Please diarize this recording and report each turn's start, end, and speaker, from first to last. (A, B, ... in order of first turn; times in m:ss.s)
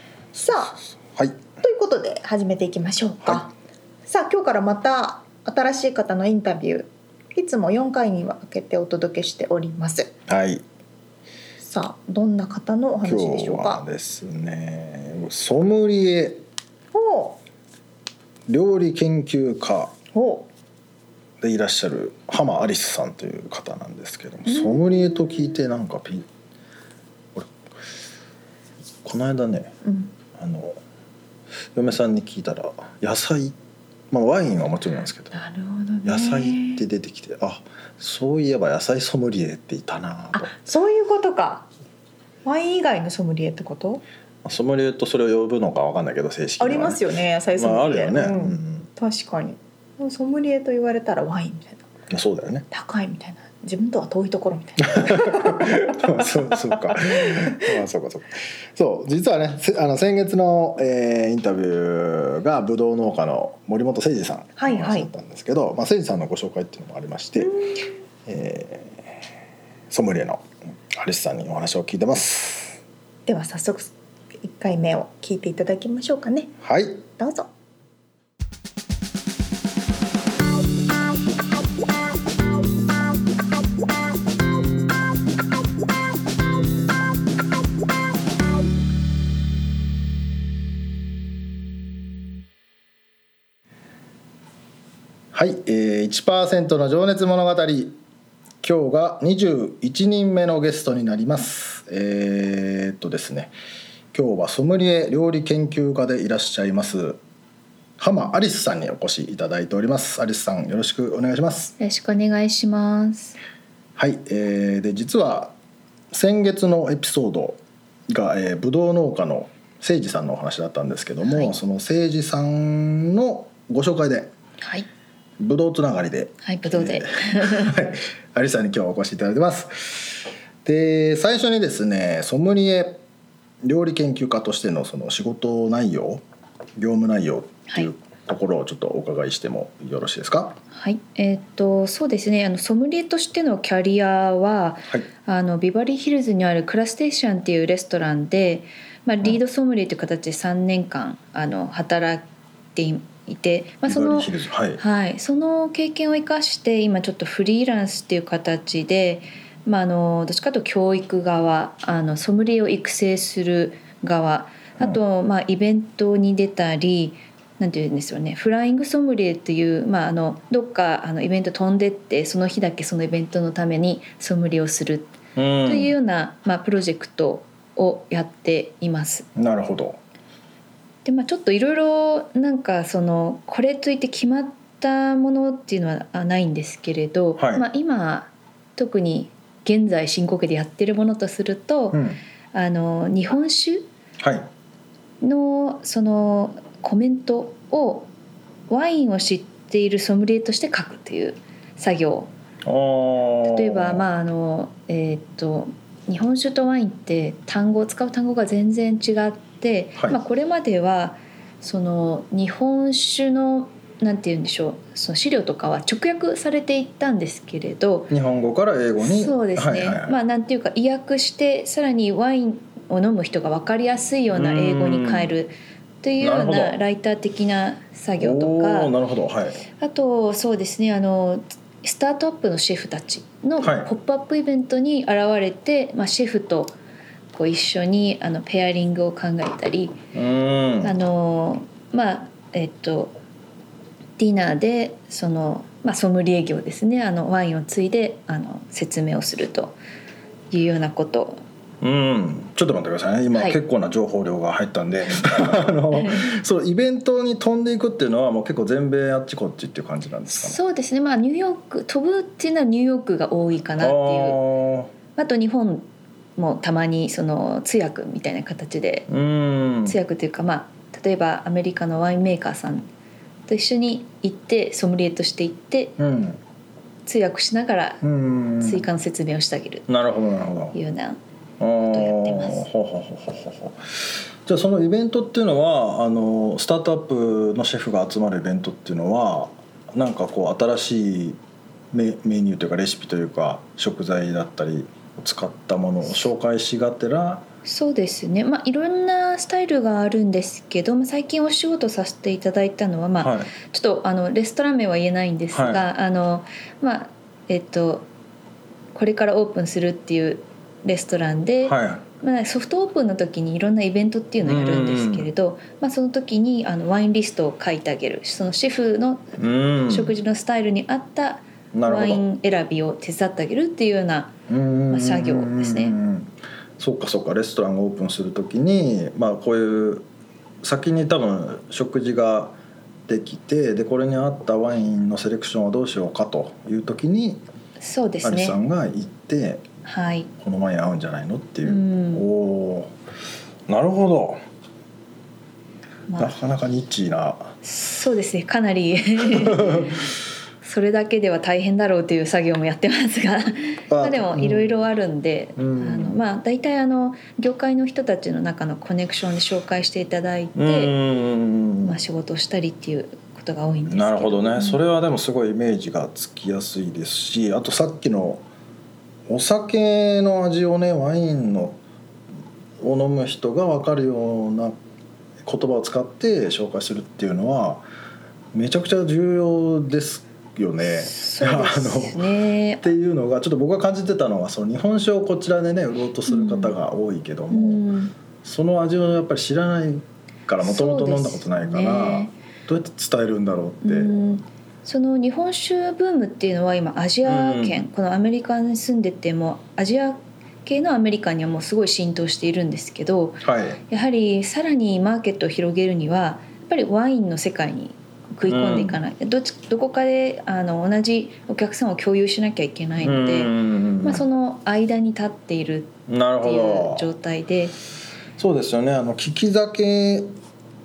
0:00.4-0:00.8 A
0:00.4-0:01.4 B
0:01.6-0:03.5 A
0:04.0-0:10.1 A
0:10.3-0:10.6 B
0:11.6-0:13.8 A
0:13.0-0:16.4 B
0:16.9-0:17.4 A
0:18.5-0:19.9 B
0:20.1-0:20.5 A
0:21.4-0:26.2 B
0:24.5-0:25.4 A
0:29.0-0:29.7 B
0:29.8-0:30.1 A
0:30.3-0:30.8 B
0:31.7-0:33.6 B
0:34.1-0:35.3 B
0:35.3-0:36.8 A
0:36.0-0:40.5 B
0:40.3-0:41.7 A
0:42.4-0:44.0 A
0:44.4-0:47.0 B
0:46.6-0:51.8 A
0:47.6-0:48.9 B
0:52.1-0:52.7 B
0:52.7-0:56.0 A
0:54.8-1:07.6 B
0:56.9-0:57.7 A
1:04.6-1:05.1 A
1:08.2-1:09.2 B
1:09.9-1:12.8 B
1:13.2-1:16.5 A
1:16.6-1:17.0 B
1:17.2-1:17.5 A
1:35.3-1:38.0 B
1:38.6-1:43.5 B
1:44.1-1:47.2 B
1:48.0-1:51.7 B
1:51.8-1:53.4 C
1:54.0-1:55.5 B
1:56.1-2:04.3 B
2:01.2-2:01.5 C
2:04.6-2:04.9 C
2:05.4-2:13.0 B
2:06.4-2:07.8 C
2:13.6-2:16.2 B
2:16.8-2:20.6 B
2:20.7-2:59.3 C
2:33.8-2:34.8 B
2:55.4-2:55.9 B
2:59.3-3:00.0 B
3:01.0-3:13.8 C
3:07.4-3:07.6 B
3:11.9-3:12.2 B
3:14.2-3:14.5 B
3:15.2-3:18.1 C
3:18.7-3:22.3 C
3:22.6-3:24.0 B
3:23.4-3:38.1 C
3:38.1-3:40.2 B
3:39.0-3:48.9 C
3:44.3-3:45.3 B
3:46.2-3:46.8 B
3:48.2-3:49.6 B
3:49.7-3:56.8 C
3:53.6-3:53.9 B
3:57.3-4:00.0 C
4:00.1-4:00.9 B
4:00.8-4:03.2 C
4:04.2-4:09.8 C
4:10.5-4:11.4 C
4:11.8-4:20.6 B
4:15.9-4:16.2 C
4:20.3-4:24.4 C
4:23.8-4:24.9 B
4:25.1-4:29.1 C
4:29.1-4:30.0 B
4:29.8-4:32.9 C
4:33.5-4:36.0 C
4:36.0-4:36.4 B
4:37.0-4:38.0 C
4:38.0-4:38.8 B
4:38.6-4:39.9 C
4:39.9-4:40.7 B
4:40.7-4:41.2 C
4:41.6-4:51.4 B
4:41.8-4:42.6 C
4:51.9-4:57.4 B
4:57.6-5:08.1 C
5:03.2-5:03.5 B
5:05.5-5:05.8 B
5:08.9-5:24.4 C
5:11.6-5:12.0 B
5:14.4-5:15.3 B
5:19.4-5:20.1 B
5:21.7-5:22.2 B
5:24.5-5:30.0 B
5:24.9-5:26.0 C
5:30.6-5:32.6 B
5:33.1-5:37.4 B
5:37.8-5:38.6 C
5:38.2-5:39.6 B
5:39.8-5:40.3 C
5:40.4-5:42.9 B
5:41.6-5:42.2 C
5:43.7-5:44.4 B
5:46.1-5:46.4 C
5:46.2-5:47.5 B
5:47.6-5:50.1 C
5:49.2-5:50.0 B
5:50.6-6:01.0 C
5:53.9-5:54.7 B
5:55.6-5:56.2 B
6:00.6-6:02.0 B
6:01.8-6:04.8 C
6:03.9-6:08.4 B
6:09.3-6:11.8 B
6:12.8-6:14.7 B
6:15.4-6:17.8 B
6:18.5-6:22.2 B
6:20.8-6:22.9 C
6:22.8-6:27.8 B
6:26.3-6:26.7 C
6:27.5-6:28.1 C
6:28.4-6:34.2 B
6:30.6-6:32.3 C
6:33.8-6:57.7 C
6:37.2-6:37.8 B
6:43.4-6:43.8 B
6:48.5-6:49.0 B
6:53.0-6:54.2 B
6:56.1-6:57.1 B
6:58.4-7:00.3 B